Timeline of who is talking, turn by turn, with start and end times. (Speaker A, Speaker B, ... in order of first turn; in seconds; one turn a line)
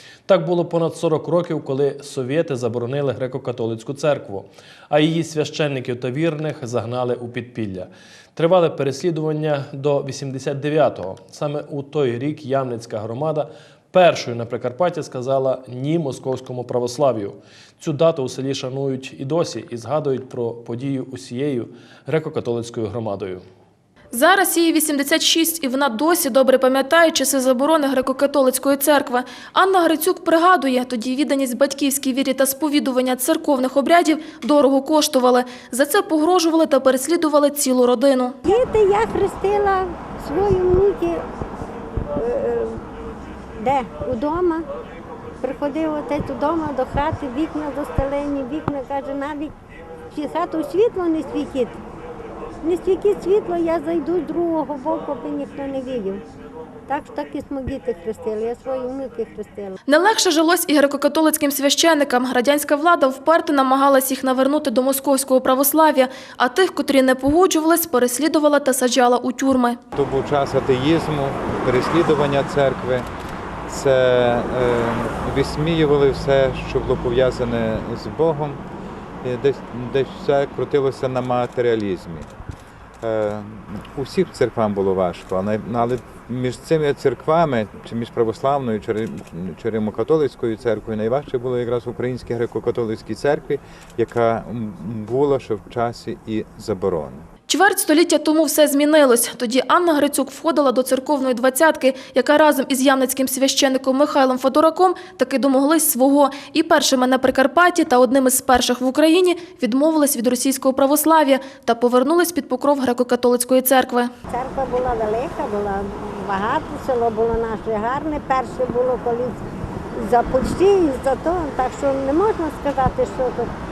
Speaker A: 0.3-23.4
Speaker B: 24.1-38.4
Speaker C: 38.4-41.2
Speaker C: 42.1-42.9
Speaker C: 43.6-44.7
Speaker C: 45.4-49.5
Speaker C: 50.1-51.8
Speaker C: 52.6-56.2
Speaker C: 56.9-59.8
Speaker B: 59.9-69.8
Speaker D: 69.9-73.1
Speaker D: 73.7-78.6
Speaker D: 79.2-82.3
Speaker D: 83.0-97.3
Speaker B: 97.5-114.1
Speaker C: 114.3-119.4
Speaker C: 119.9-123.5